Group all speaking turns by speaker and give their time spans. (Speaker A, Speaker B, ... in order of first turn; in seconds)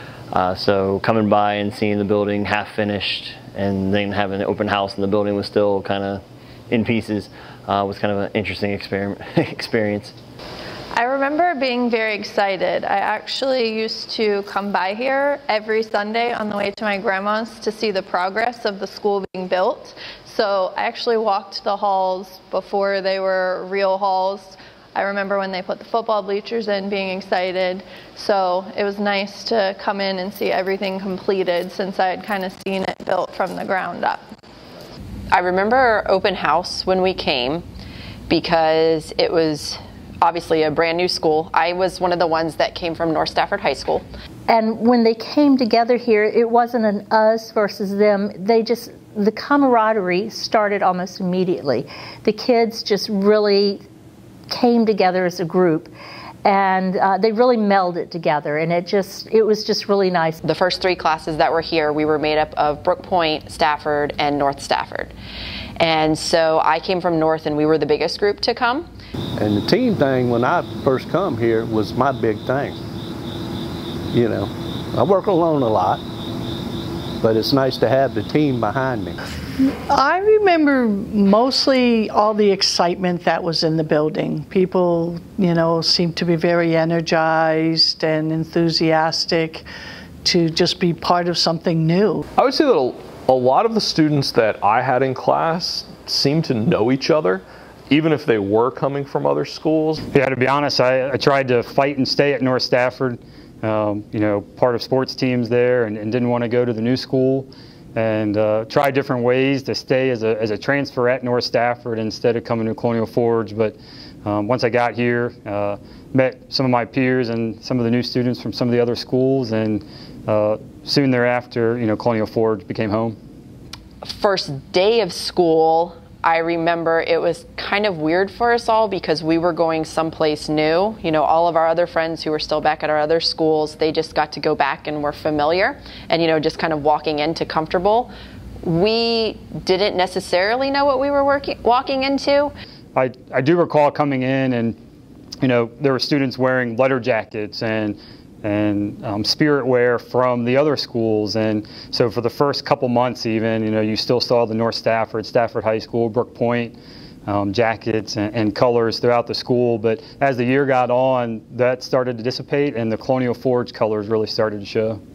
Speaker A: 0.3-10.1
Speaker B: 10.9-34.2
Speaker C: 35.3-37.6, 38.3-44.0, 60.4-65.1, 65.8-68.9, 124.0-138.1, 138.6-142.5
Speaker D: 44.5-53.8, 54.5-55.9, 56.4-60.4
Speaker E: 69.4-72.8, 74.1-76.0, 77.2-79.2
Speaker F: 79.9-89.6, 90.2-92.2
Speaker G: 92.4-100.0
Speaker H: 100.1-123.2, 142.9-144.8, 145.4-156.8, 157.2-165.0